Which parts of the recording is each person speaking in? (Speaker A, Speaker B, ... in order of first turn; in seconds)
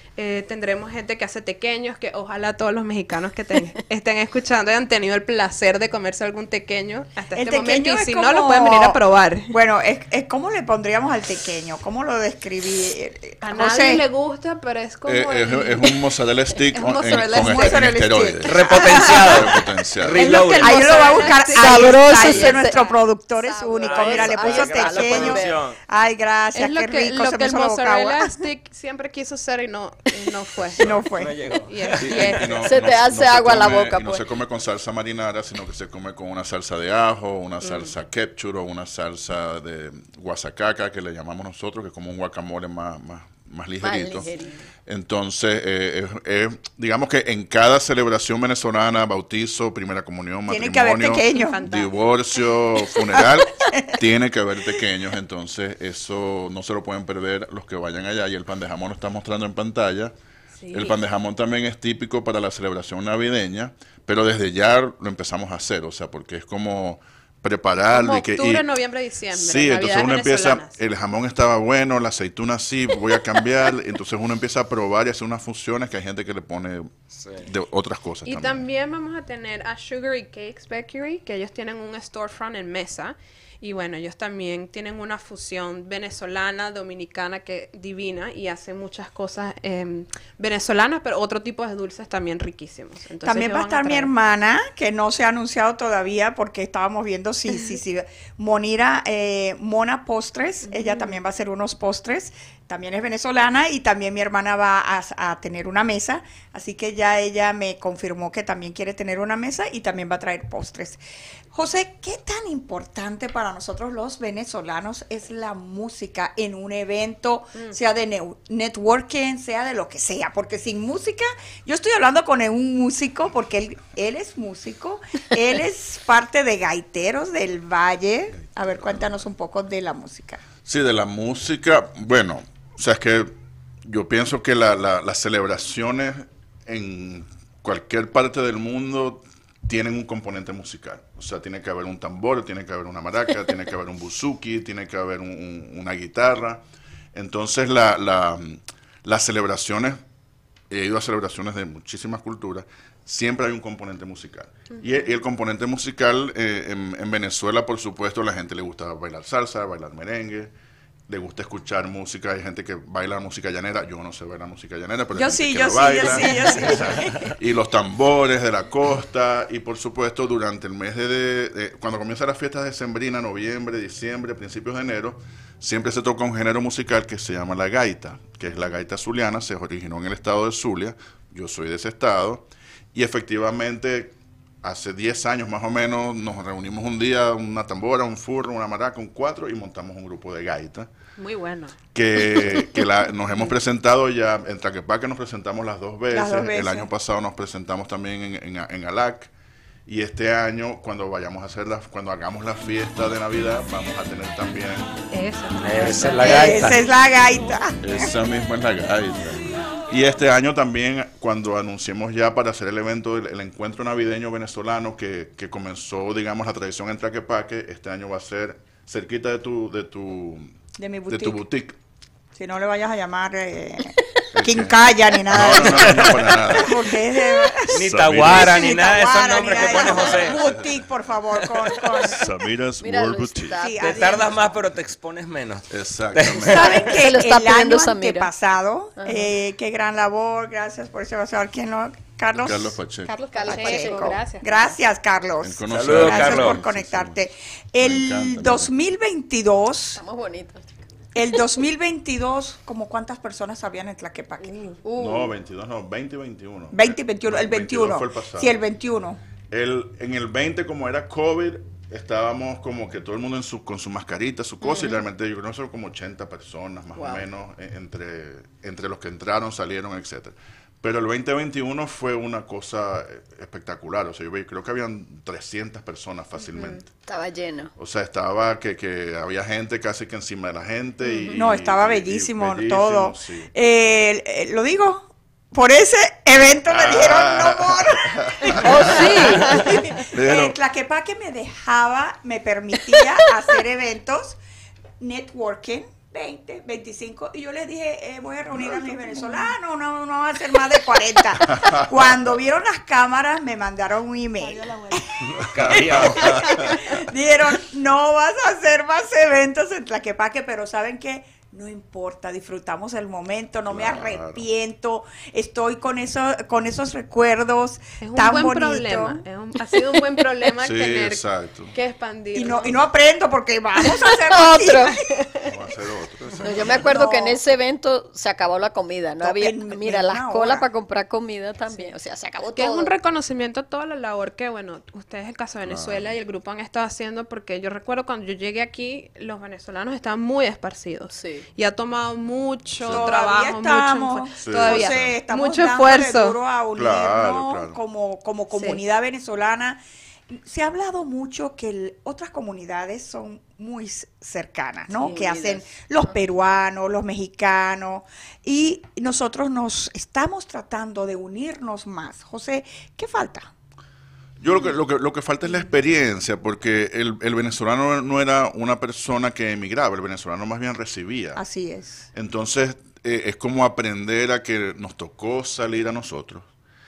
Speaker A: 0.2-9.5, 13.4-16.1, 16.6-18.1, 18.9-19.4, 20.1-22.8, 26.6-30.9, 31.7-32.6, 37.6-37.9, 51.3-52.2, 60.6-61.0, 67.9-70.8, 78.2-94.1, 100.6-101.2, 154.8-155.1, 191.2-191.8, 205.1-206.6, 243.4-244.8, 276.4-276.7, 288.5-290.1, 318.0-322.8, 325.1-325.5, 332.5-346.4
Speaker B: 7.3-14.0, 17.1-19.4, 20.5-28.4, 30.8-31.3, 50.5-51.6, 53.1-54.0, 93.2-111.0, 111.5-130.4, 165.2-167.3, 196.1-196.9, 206.2-208.1, 220.8-221.4, 222.3-232.3, 233.6-234.5, 236.4-242.8, 243.4-250.0, 251.2-254.6, 256.7-259.2, 281.3-294.4, 295.0-319.2, 322.3-325.2, 326.9-327.4, 329.2-330.7, 342.9-363.5, 371.4-372.1
Speaker C: 15.1-20.4, 30.8-31.1, 31.9-44.3, 44.9-60.1, 60.7-68.7, 69.3-78.7, 128.6-129.1, 130.7-133.3, 133.8-150.0, 150.7-160.5, 161.1-190.9, 191.9-199.3, 199.9-205.0, 207.8-220.6, 221.1-221.8, 224.3-226.9, 227.7-230.8, 232.1-233.6, 235.7-236.9, 242.4-243.2, 245.4-247.2, 247.8-248.7, 255.0-258.5, 259.5-276.9, 277.8-283.5, 286.7-290.6, 305.6-306.9, 313.7-314.4, 320.6-321.7, 325.4-326.9, 335.6-336.2, 342.8-343.2, 344.4-345.2, 346.8-347.8, 364.4-371.4, 372.1-376.5
Speaker D: 18.4-21.3, 23.8-25.8, 31.1-32.5, 77.2-77.5, 205.6-206.8, 227.7-230.4, 231.4-232.2, 233.8-236.9, 245.7-246.6, 305.2-306.7
Speaker E: 21.5-22.9, 23.4-25.6, 32.6-34.3, 43.8-44.6, 232.8-234.4, 236.9-238.3, 239.0-239.3, 243.1-244.2, 250.0-250.8, 254.8-255.3, 264.6-265.0, 267.0-267.3, 276.6-277.7, 281.0-281.4, 323.9-324.9, 326.4-332.9, 341.1-341.5, 355.0-356.1